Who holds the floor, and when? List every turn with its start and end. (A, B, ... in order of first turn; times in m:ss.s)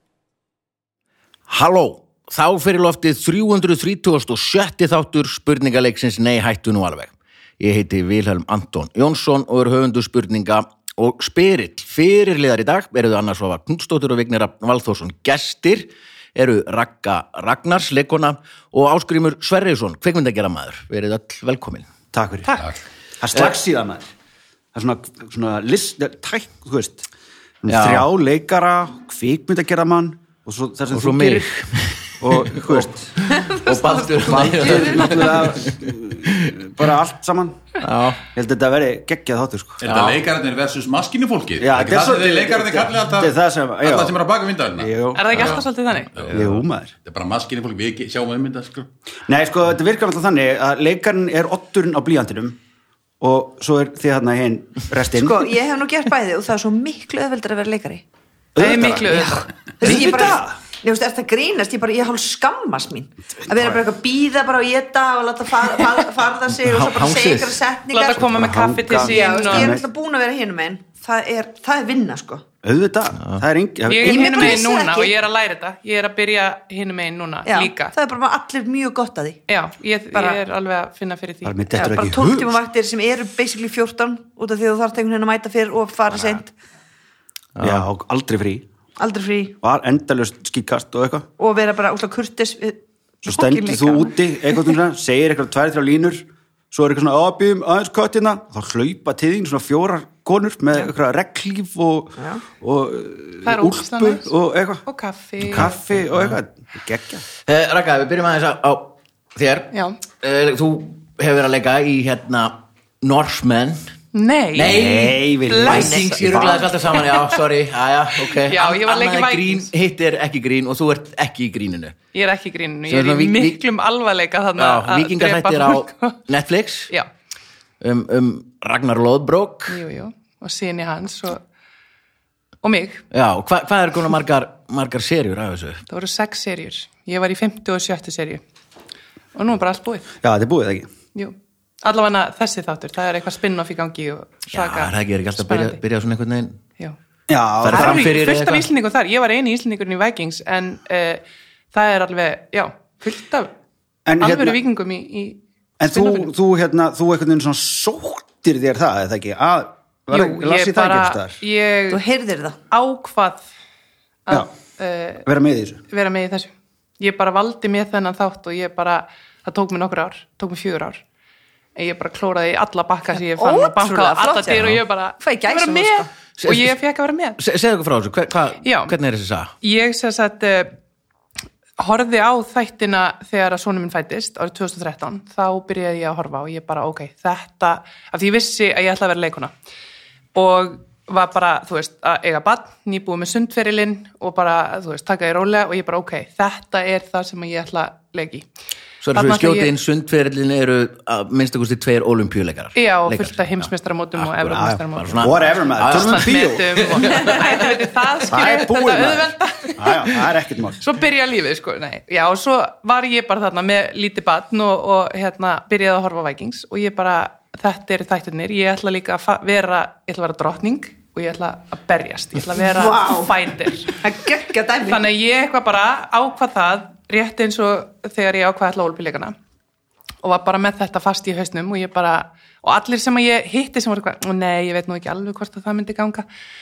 0:01.5-0:21.9 A
0:22.1-0:22.6 B
0:23.2-0:24.1 B
0:24.7-0:27.1 B
0:27.6-0:31.5 B
0:27.7-0:28.0 A
0:30.9-0:36.6 A
0:32.2-0:33.1 B
0:33.3-0:35.3 C
0:34.2-0:39.9 B
0:37.8-0:38.2 A
0:39.8-0:45.6 D
0:39.8-0:40.2 A
0:41.6-0:44.2 B
0:44.8-0:45.5 B
0:45.1-0:46.1 E
0:46.1-0:48.9 D
0:46.3-0:46.9 B
0:49.3-0:52.6 B
0:53.2-0:55.5 B
0:55.1-0:58.0 C
0:58.5-1:00.5 B
0:58.6-1:00.2 E
0:59.8-1:08.4 C
1:03.5-1:03.8 B
1:06.5-1:07.6 A
1:07.9-1:09.8 E
1:08.3-1:09.8 B
1:09.0-1:12.4 C
1:12.6-1:14.6 B
1:13.8-1:17.9 E
1:14.0-1:15.1 C
1:17.4-1:19.4 C
1:19.5-1:21.8 E
1:21.4-1:22.5 B
1:21.7-1:26.5 C
1:22.1-1:22.4 A
1:27.6-1:27.9 A
1:27.6-1:28.6 B
1:29.0-1:29.6 C
1:29.6-1:31.3 B
1:31.4-1:34.8 C
1:33.2-1:44.8 B
1:42.2-1:42.4 C
1:43.4-1:44.3 E
1:44.8-1:45.8 E
1:45.4-1:47.2 B
1:47.4-1:53.8 A
1:49.7-1:50.0 E
1:54.1-1:54.8 E
1:54.5-2:02.0 A
1:54.6-1:56.7 B
1:55.4-1:56.0 E
1:55.6-1:56.6 C
1:58.4-1:59.7 E
2:02.1-2:06.2 E
2:02.9-2:03.6 A
2:04.6-2:06.9 A
2:07.8-2:09.8 A
2:09.7-2:11.4 E
2:12.6-2:13.0 E
2:13.1-2:15.8 A
2:15.9-2:18.4 E
2:19.3-2:20.1 E
2:20.2-2:20.9 B
2:21.1-2:25.8 E
2:24.5-2:26.6 A
2:27.3-2:28.1 B
2:27.6-2:28.7 A
2:27.7-2:33.5 E
2:34.0-2:34.6 B
2:34.2-2:36.3 E
2:35.8-2:41.4 B
2:40.1-2:42.0 E
2:41.9-2:42.6 C
2:42.7-2:43.4 E
2:44.2-2:45.2 E
2:45.2-2:45.8 B
2:45.9-2:51.0 E
2:51.8-2:57.4 E
2:53.2-2:56.1 C
2:56.4-2:56.8 A
2:57.4-2:59.5 A
2:58.6-2:59.0 E
2:59.6-3:00.7 E
3:01.8-3:09.5 E
3:10.3-3:18.4 E
3:19.0-3:26.3 A
3:19.1-3:19.7 E
3:22.7-3:30.2 E
3:24.5-3:27.0 B
3:27.0-3:27.6 A
3:28.3-3:30.8 B
3:30.8-3:44.0 E
3:42.7-3:43.3 C
3:43.9-3:45.0 C
3:44.8-3:49.4 E
3:50.2-3:56.2 E